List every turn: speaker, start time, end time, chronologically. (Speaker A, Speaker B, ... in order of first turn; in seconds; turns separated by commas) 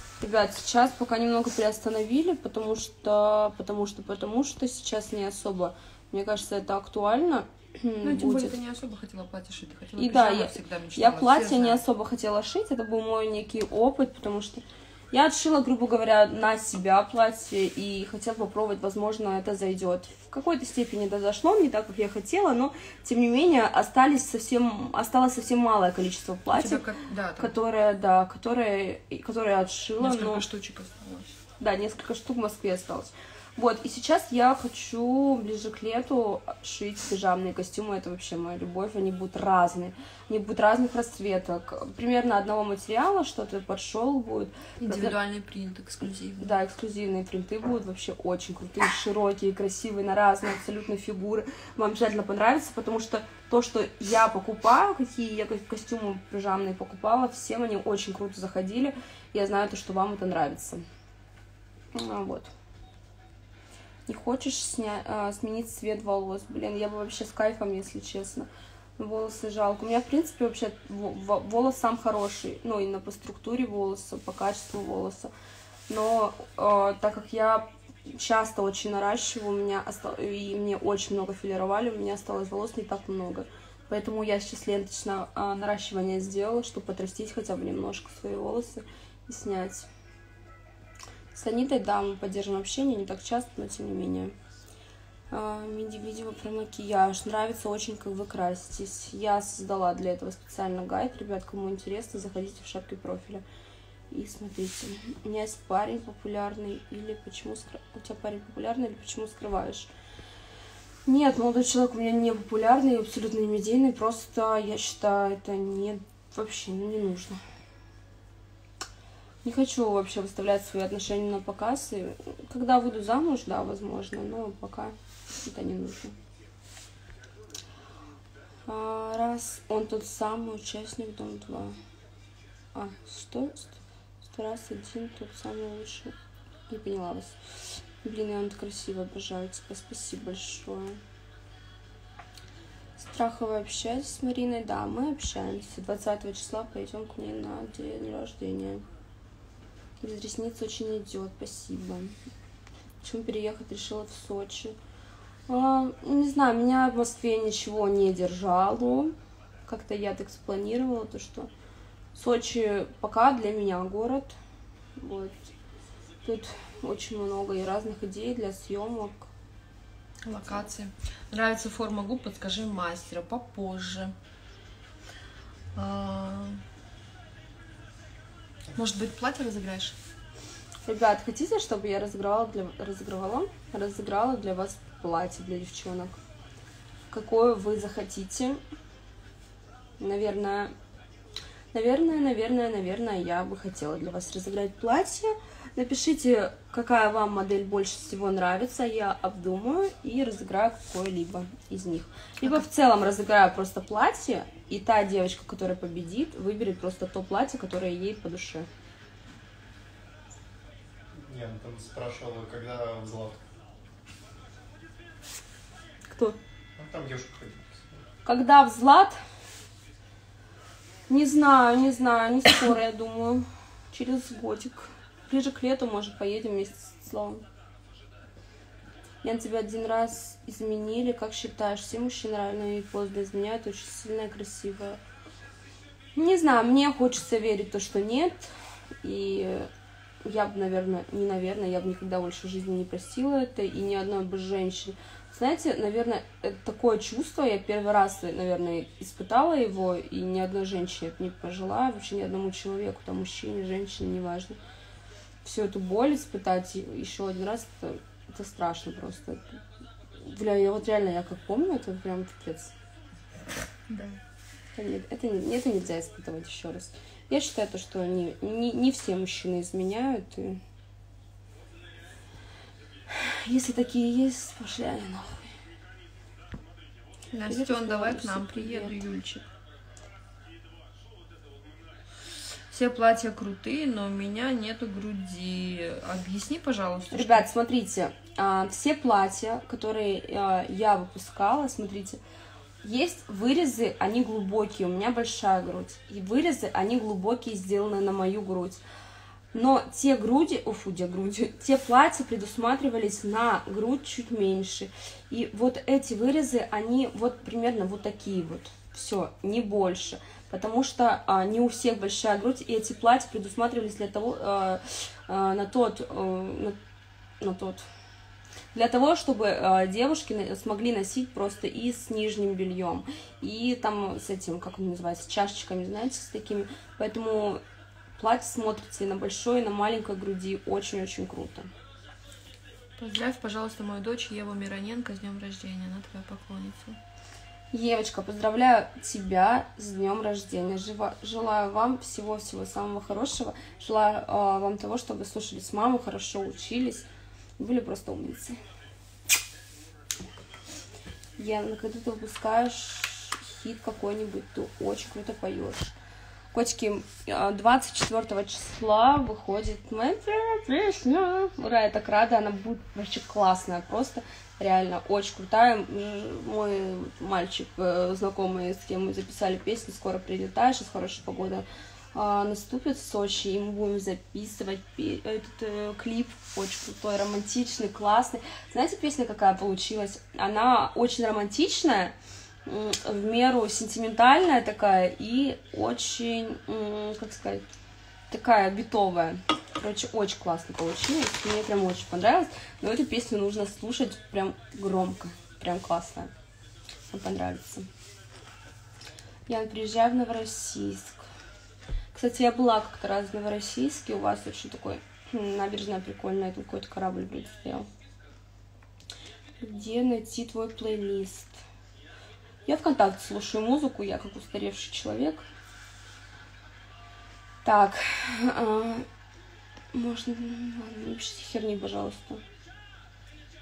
Speaker A: 0.2-8.6, Speaker B: 8.0-11.8, Speaker A: 10.0-26.8, Speaker B: 26.5-27.6, Speaker A: 27.4-30.4, Speaker B: 30.0-31.4, Speaker A: 31.6-45.1, Speaker B: 44.8-46.5, Speaker A: 46.4-60.8, Speaker A: 61.9-62.5, Speaker A: 64.1-75.3, Speaker A: 75.9-89.9, Speaker A: 91.3-94.3, Speaker A: 95.3-103.4, Speaker A: 104.1-109.9, Speaker A: 111.1-117.4, Speaker A: 119.4-126.2, Speaker A: 128.7-131.8, Speaker A: 132.7-136.1, Speaker A: 136.7-141.0, Speaker A: 143.0-148.8, Speaker A: 150.0-152.2, Speaker A: 153.0-154.8, Speaker A: 155.5-161.5, Speaker A: 162.2-164.3, Speaker A: 165.0-165.5, Speaker A: 166.2-169.3, Speaker B: 170.2-174.2, Speaker B: 175.8-176.6, Speaker B: 178.7-180.0, Speaker A: 180.9-186.2, Speaker A: 187.1-188.6, Speaker A: 190.0-190.7, Speaker A: 191.7-208.7, Speaker C: 211.1-213.4, Speaker A: 216.1-216.4, Speaker C: 216.8-218.0, Speaker A: 218.2-219.2, Speaker A: 221.1-227.4, Speaker A: 229.2-235.0, Speaker A: 236.2-238.5, Speaker A: 239.0-239.7, Speaker A: 240.2-254.6, Speaker A: 255.4-259.6, Speaker A: 260.2-262.7, Speaker B: 263.9-264.2, Speaker A: 264.8-270.6, Speaker A: 273.1-275.6, Speaker B: 277.3-279.5, Speaker A: 277.5-279.0, Speaker B: 282.7-287.5, Speaker A: 287.1-292.2, Speaker A: 292.8-298.8, Speaker A: 299.5-316.8, Speaker A: 317.4-317.9, Speaker A: 318.7-327.6, Speaker A: 328.2-331.7, Speaker B: 333.0-337.0, Speaker A: 337.7-347.1, Speaker A: 347.6-348.6, Speaker A: 351.4-355.9, Speaker A: 356.5-387.6, Speaker A: 388.3-396.3, Speaker A: 397.1-397.9, Speaker A: 399.5-401.3, Speaker A: 402.1-407.9, Speaker A: 409.6-411.6, Speaker A: 412.7-415.4, Speaker A: 417.6-419.1, Speaker A: 419.9-422.4